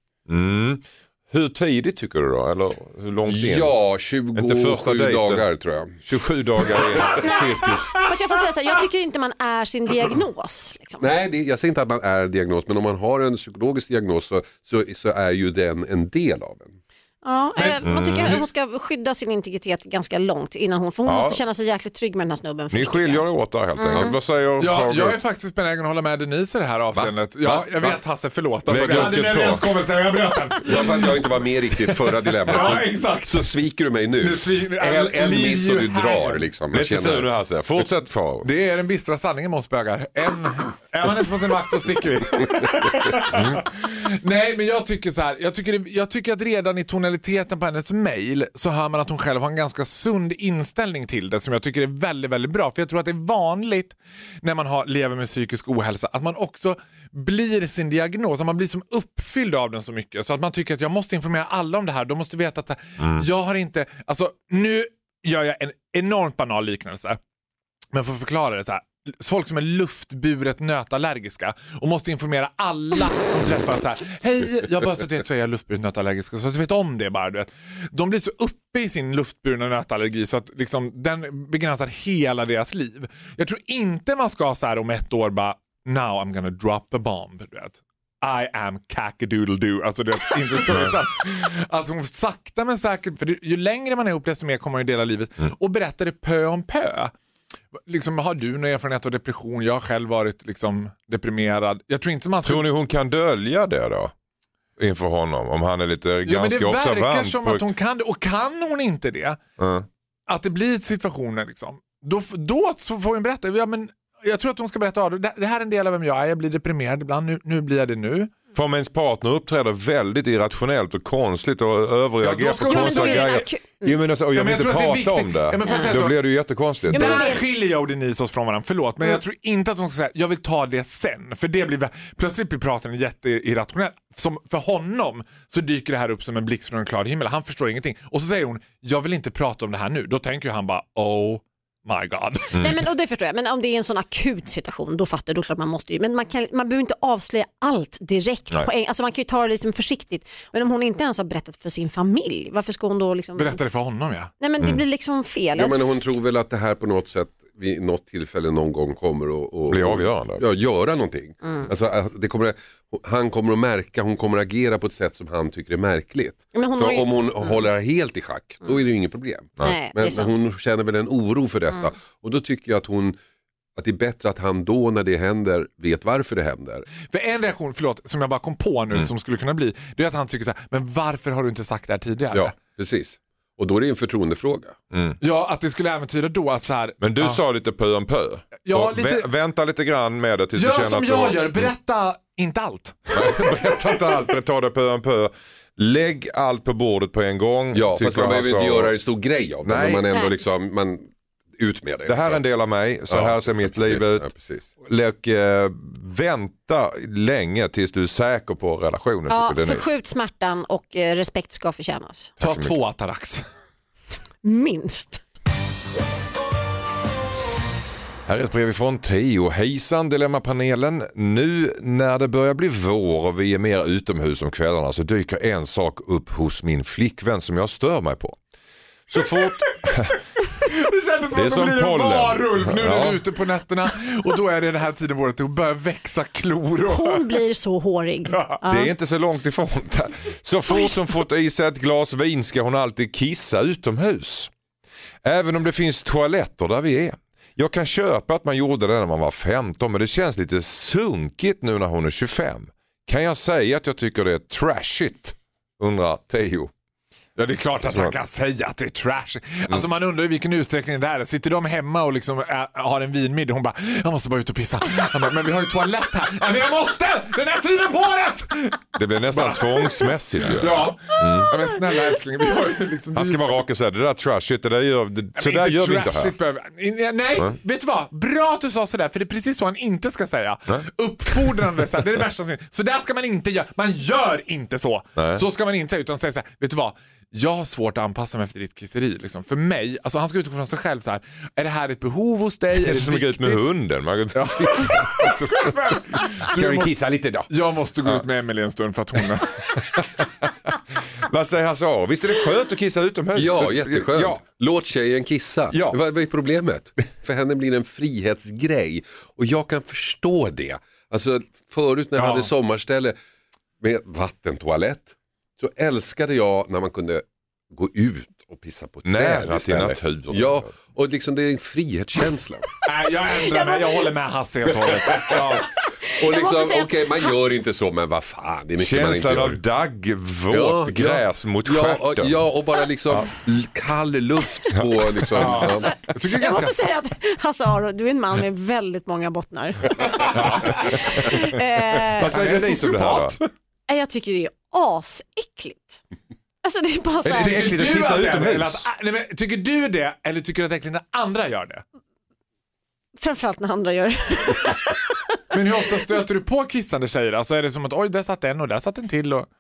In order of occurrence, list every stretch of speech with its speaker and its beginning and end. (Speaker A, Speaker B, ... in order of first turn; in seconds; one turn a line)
Speaker A: 0.3-3.8
Speaker B: 3.3-6.0
Speaker A: 4.3-5.4
Speaker A: 6.0-8.0
Speaker C: 7.0-11.1
Speaker B: 11.0-16.8
Speaker C: 17.2-24.1
Speaker D: 17.6-18.4
Speaker A: 17.8-18.4
Speaker A: 21.1-21.4
Speaker A: 22.7-25.2
Speaker D: 24.6-31.1
Speaker B: 27.4-28.0
Speaker B: 28.7-29.2
Speaker A: 28.7-29.7
Speaker B: 30.6-37.8
Speaker D: 32.0-33.5
Speaker D: 34.2-36.4
Speaker A: 36.7-38.5
Speaker D: 38.4-67.2
Speaker A: 43.3-43.6
Speaker A: 63.0-63.3
Speaker D: 67.9-97.1
Speaker D: 97.8-102.7
Speaker A: 102.4-104.1
Speaker A: 104.8-107.6
Speaker D: 106.2-109.4
Speaker A: 109.6-109.9
Speaker D: 110.3-118.3
Speaker A: 118.5-127.3
Speaker D: 122.2-123.4
Speaker C: 122.7-124.0
Speaker D: 124.3-126.2
Speaker C: 126.9-127.4
Speaker D: 126.9-142.6
Speaker C: 142.6-153.6
Speaker D: 153.4-154.3
Speaker C: 154.4-155.8
Speaker B: 155.6-173.2
Speaker A: 159.7-160.4
Speaker C: 161.4-161.7
Speaker C: 166.5-167.7
Speaker C: 169.6-170.3
Speaker B: 173.8-176.9
Speaker D: 177.1-182.5
Speaker B: 182.3-184.8
Speaker A: 184.9-185.2
Speaker D: 185.2-187.4
Speaker A: 187.0-191.7
Speaker D: 188.6-189.3
Speaker D: 190.6-193.1
Speaker A: 193.1-199.0
Speaker B: 197.7-202.4
Speaker A: 199.6-200.1
Speaker A: 202.1-204.3
Speaker B: 203.1-204.7
Speaker A: 204.8-209.9
Speaker C: 209.3-212.3
Speaker A: 212.4-212.8
Speaker D: 212.4-213.5
Speaker C: 214.4-215.2
Speaker A: 218.3-228.4
Speaker A: 229.1-230.2
Speaker D: 230.7-237.2
Speaker A: 231.3-233.2
Speaker C: 236.9-238.9
Speaker D: 238.3-238.6
Speaker A: 238.7-244.5
Speaker C: 240.7-241.0
Speaker A: 245.2-256.7
Speaker D: 257.4-269.9
Speaker A: 257.8-258.2
Speaker A: 269.0-271.5
Speaker D: 270.4-273.4
Speaker C: 271.3-271.5
Speaker A: 273.1-276.3
Speaker D: 275.4-293.6
Speaker A: 285.2-285.4
Speaker A: 292.7-297.5
Speaker D: 294.3-297.0
Speaker D: 297.5-299.5
Speaker A: 299.8-300.5
Speaker A: 301.2-304.4
Speaker B: 303.3-313.2
Speaker A: 305.7-306.0
Speaker D: 312.1-312.5
Speaker B: 313.8-322.7
Speaker A: 319.0-320.7
Speaker D: 322.8-325.7
Speaker C: 323.5-324.0
Speaker B: 325.0-325.6
Speaker C: 325.8-327.4
Speaker B: 326.2-329.6
Speaker A: 328.8-332.4
Speaker B: 330.5-335.9
Speaker A: 334.8-335.6
Speaker D: 335.4-336.8
Speaker C: 335.6-342.4
Speaker D: 340.1-340.8
Speaker A: 340.3-343.4
Speaker D: 342.3-343.5
Speaker C: 343.9-346.0
Speaker C: 346.6-347.7
Speaker A: 347.2-348.9
Speaker D: 347.3-351.8
Speaker C: 353.2-355.2
Speaker D: 355.5-359.5